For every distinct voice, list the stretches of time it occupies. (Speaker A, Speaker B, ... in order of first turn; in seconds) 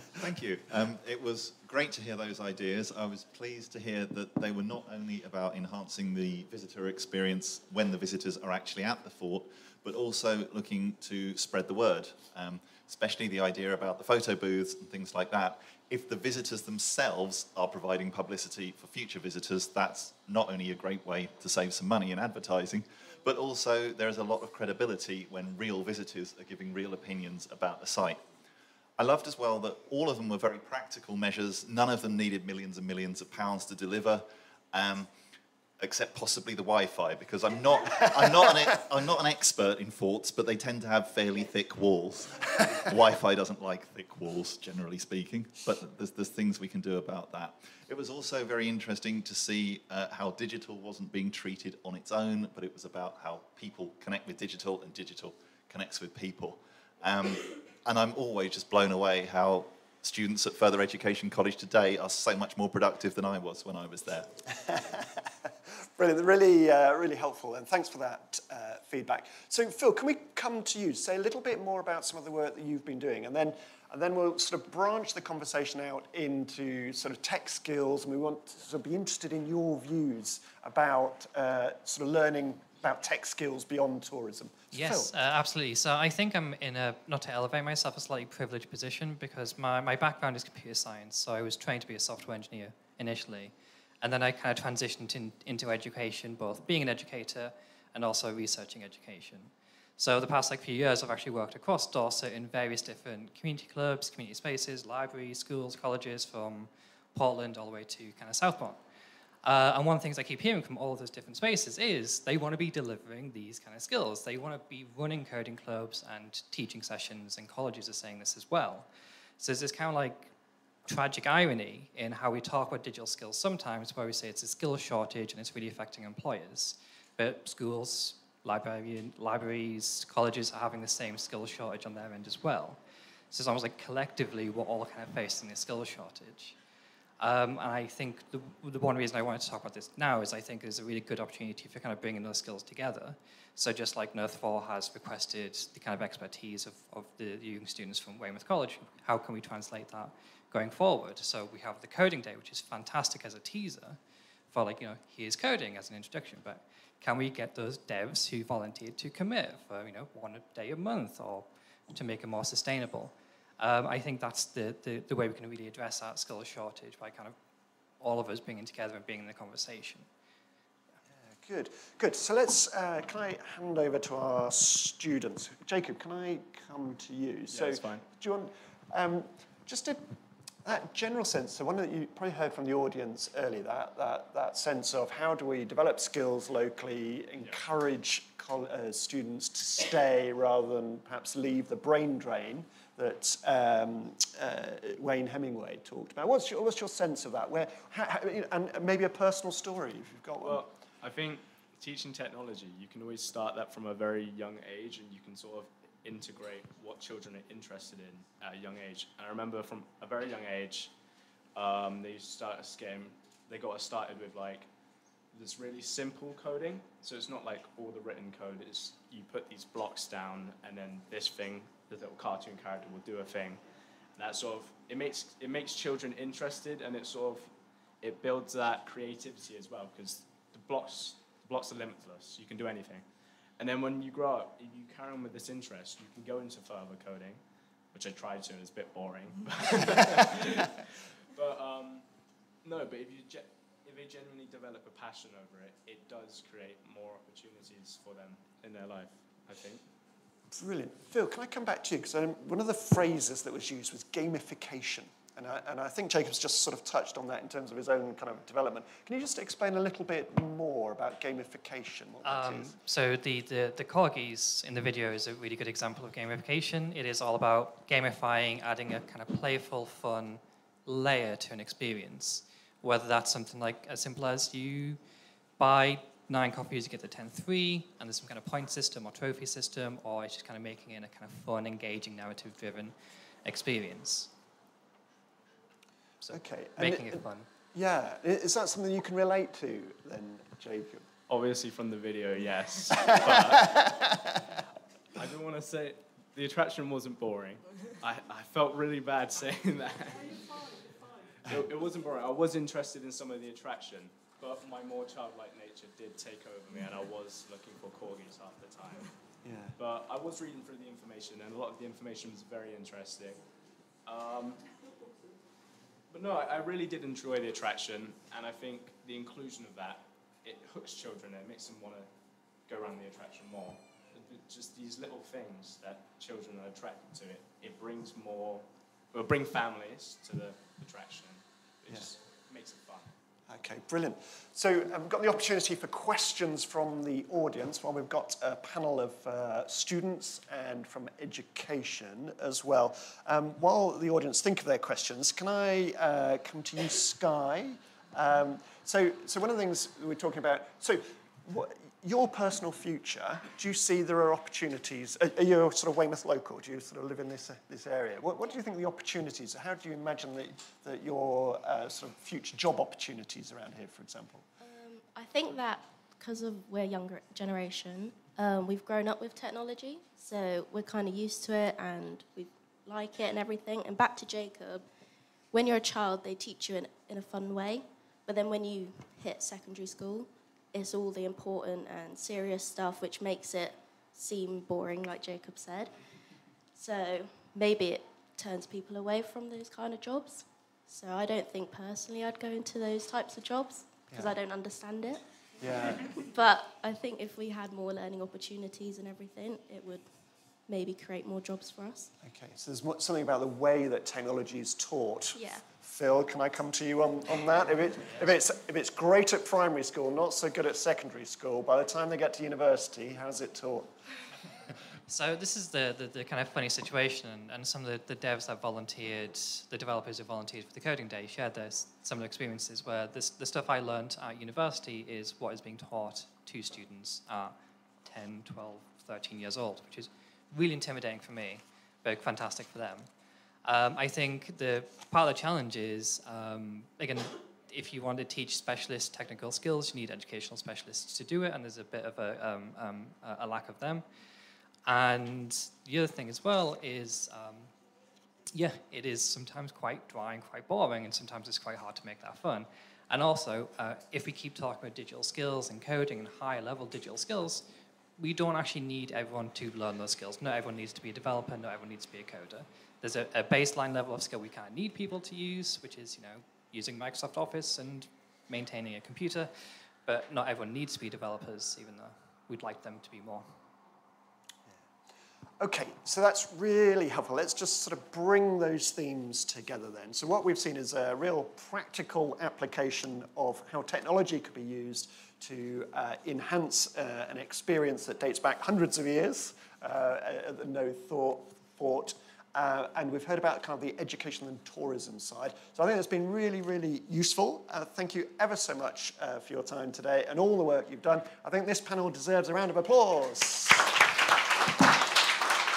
Speaker A: 0.2-28.2, 29.0-35.1, 35.8-64.3
Speaker B: 64.6-65.0, 66.0-85.1, 171.3-180.0, 180.7-200.7, 250.5-262.8, 286.3-291.1, 293.1-293.9, 309.4-309.8, 333.5-364.5, 395.6-396.1, 402.2-413.9, 475.6-503.9
Speaker C: 84.7-108.8, 109.4-118.9, 119.4-120.3, 120.9-132.8, 133.3-136.6, 137.2-154.0, 154.5-167.3, 168.0-170.1, 262.2-275.0, 275.6-282.9, 283.5-284.3, 286.2-287.5, 415.1-427.6, 428.1-433.1, 433.6-444.0, 444.9-447.7, 448.5-457.6, 458.2-469.5, 470.1-473.5
Speaker D: 177.5-178.1, 200.4-210.9, 211.6-214.7, 215.3-223.6, 224.2-242.1, 242.6-249.9, 291.3-294.1, 295.1-300.6, 301.5-309.1, 309.8-313.4, 314.1-314.6, 316.1-322.1, 322.7-333.1
Speaker E: 364.6-374.9, 375.5-385.9, 386.8-395.2, 396.3-402.1, 405.4-405.6